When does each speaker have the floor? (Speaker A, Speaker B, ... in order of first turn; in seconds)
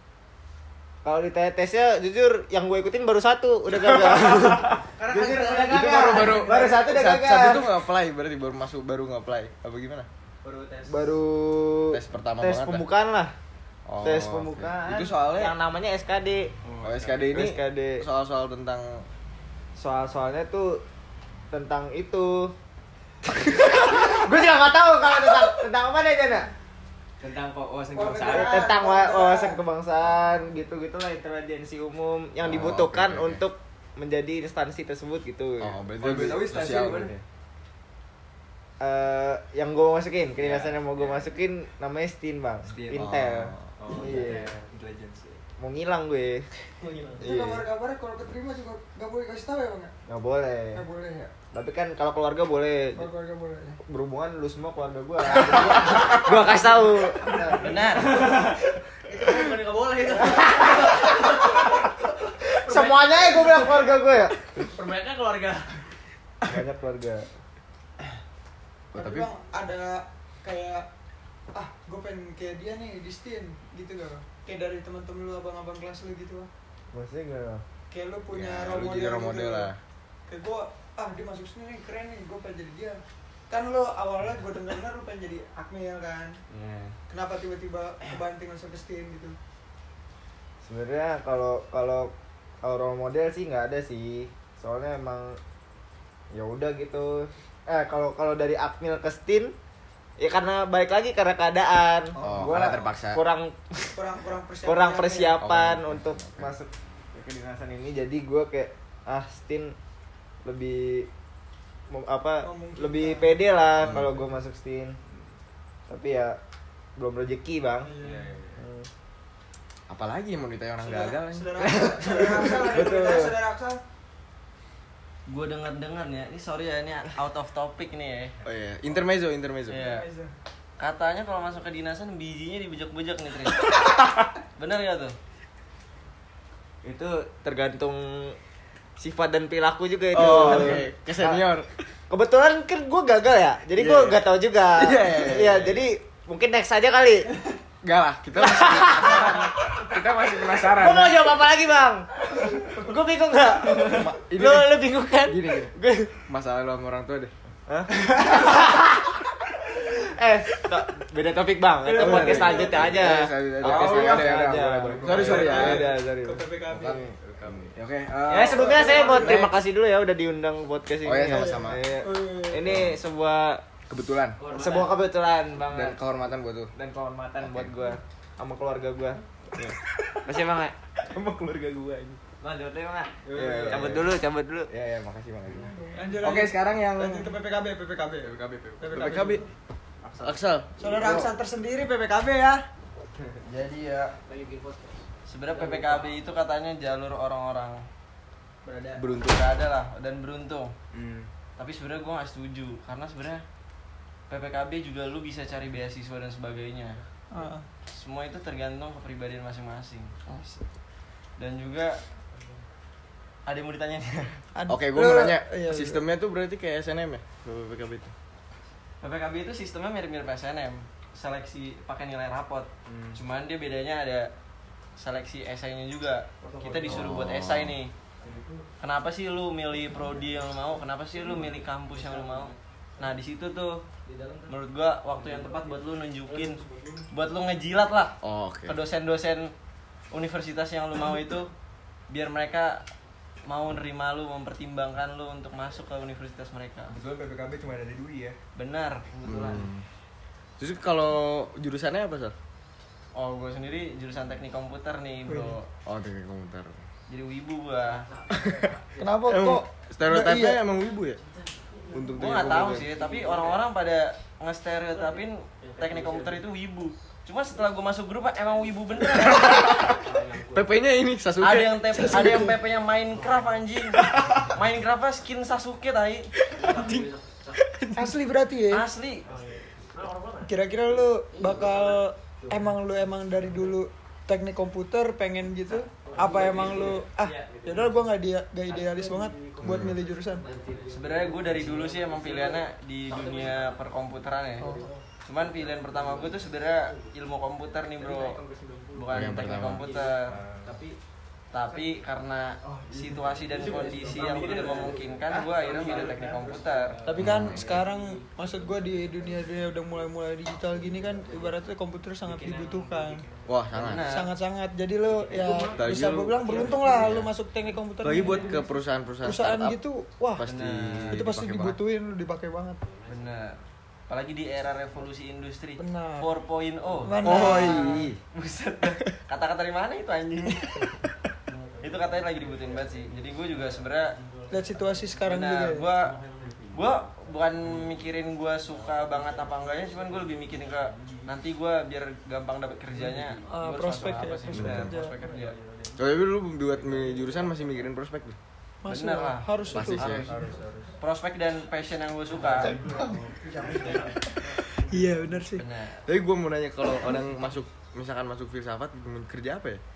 Speaker A: 1.0-7.7, 10.8-13.3, 14.0-16.5, 17.3-18.1, 19.8-20.8, 21.5-22.6, 23.3-26.5, 28.3-35.8, 38.8-44.5, 45.6-46.5, 47.2-47.7, 50.1-50.8, 51.5-53.1, 53.9-57.9, 60.2-61.2, 62.6-64.4, 66.5-67.3, 76.9-77.6, 90.6-95.4, 96.3-99.5, 100.2-104.0, 104.6-109.8, 110.4-111.1, 111.9-115.0, 115.9-116.4, 117.0-117.9, 118.6-118.9, 121.7-123.4, 136.8-138.4, 139.0-141.5, 142.1-147.3, 148.4-149.5, 150.4-152.1, 152.7-156.2, 157.7-166.4, 168.3-173.6, 174.5-176.0, 176.7-179.2, 180.2-180.8, 182.4-184.7
Speaker B: 5.0-6.2, 27.9-29.6, 47.2-49.9, 50.7-51.3, 53.0-53.8, 56.1-57.9, 68.9-70.9, 71.5-76.5, 77.9-79.7, 80.3-86.4, 87.1-89.4, 103.9-105.5, 112.4-113.5, 117.8-118.3, 120.8-123.8, 129.7-130.3, 161.9-162.8, 165.2-167.0, 168.5-169.4, 171.4-172.8, 185.8-189.4, 190.8-192.7, 207.3-207.7, 210.3-210.6, 214.6-216.0, 255.3-255.6, 259.0-260.6, 271.9-272.6, 277.9-278.9, 280.4-290.5, 294.6-294.9, 307.1-313.3, 314.1-320.4, 321.1-322.8, 325.8-326.3, 327.0-328.1, 334.5-335.9, 343.5-345.2, 348.8-350.2, 352.6-355.6
Speaker C: 5.7-10.1, 11.9-12.9, 13.9-15.6, 16.8-19.1, 32.4-33.4, 35.6-37.2, 43.0-43.7, 69.0-69.3, 78.3-79.8, 102.2-103.2, 105.4-106.5, 119.9-122.5, 128.4-129.9, 140.1-141.7, 143.8-144.2, 144.8-145.7, 147.8-151.1, 153.9-155.7, 156.3-157.3, 161.9-165.9, 166.7-169.6, 171.0-171.8, 172.7-173.0, 173.9-174.4, 175.7-176.7, 177.4-177.7, 181.2-182.2, 183.3-184.1, 184.7-187.3, 188.3-189.4, 190.2-191.3, 193.5-194.1, 199.0-199.5, 214.7-218.1, 226.9-227.8, 238.2-238.8, 249.2-249.8, 250.6-252.3, 255.9-256.8, 258.3-258.7, 259.2-261.2, 261.9-262.9, 269.3-272.1, 276.7-277.0, 289.6-290.0, 299.1-299.9, 307.2-307.7, 313.5-314.1, 315.8-317.3, 318.0-319.8, 320.4-321.8, 327.2-328.2, 344.5-344.9, 346.0-348.4, 349.7-350.3, 356.1-359.8
Speaker D: 6.1-6.3, 10.4-11.1, 46.8-47.2, 58.0-58.5, 59.2-61.4, 62.7-63.7, 64.6-65.7, 174.4-175.1, 190.1-190.3, 194.2-196.2, 198.7-198.9, 226.4-227.1, 228.2-228.6, 231.2-232.5, 234.1-234.5, 235.2-237.1, 258.0-259.2, 261.2-262.0, 262.8-263.6, 264.9-266.4, 268.5-269.1, 269.8-270.8, 273.1-273.7, 276.5-277.6, 279.2-282.8, 285.7-288.1, 288.7-293.8, 294.6-297.1, 297.8-300.1, 303.5-307.1, 312.3-313.9, 315.1-317.1, 318.2-318.6, 322.9-323.4, 326.8-327.2, 331.5-335.1, 336.0-341.3, 343.0-344.2, 345.1-346.0, 347.1-347.5, 350.3-350.8, 352.3-355.2
Speaker E: 16.6-17.4, 27.2-28.7, 36.0-37.2, 40.4-41.4, 42.7-45.4, 113.8-114.3, 115.1-115.3, 118.0-118.6, 140.2-140.7, 145.1-145.8, 149.9-151.0, 161.9-163.0, 163.6-167.9, 183.2-184.1, 200.9-201.3, 222.9-223.2, 246.9-248.4, 300.2-300.8, 302.6-306.7, 346.9-347.3, 350.0-350.9
Speaker F: 57.6-58.2, 125.3-128.3, 129.7-130.1, 130.8-133.9, 134.6-135.2, 195.3-197.8, 199.2-200.7, 201.6-203.4, 204.3-207.0, 207.9-210.1, 211.4-212.0, 213.5-214.4, 219.0-224.3, 225.0-227.9, 228.8-233.8, 234.5-236.6, 237.1-239.5, 240.1-241.5, 242.1-242.8, 243.5-247.0, 248.6-249.1, 253.2-255.7, 257.1-258.1, 262.2-269.9, 271.4-276.3, 278.7-279.3, 290.9-294.7, 295.2-298.4, 298.9-300.4, 301.5-307.0, 313.8-314.3, 320.4-321.2, 323.1-330.9, 331.8-334.2, 335.2-336.2, 336.7-345.6, 348.9-350.3, 351.0-352.8, 355.6-356.0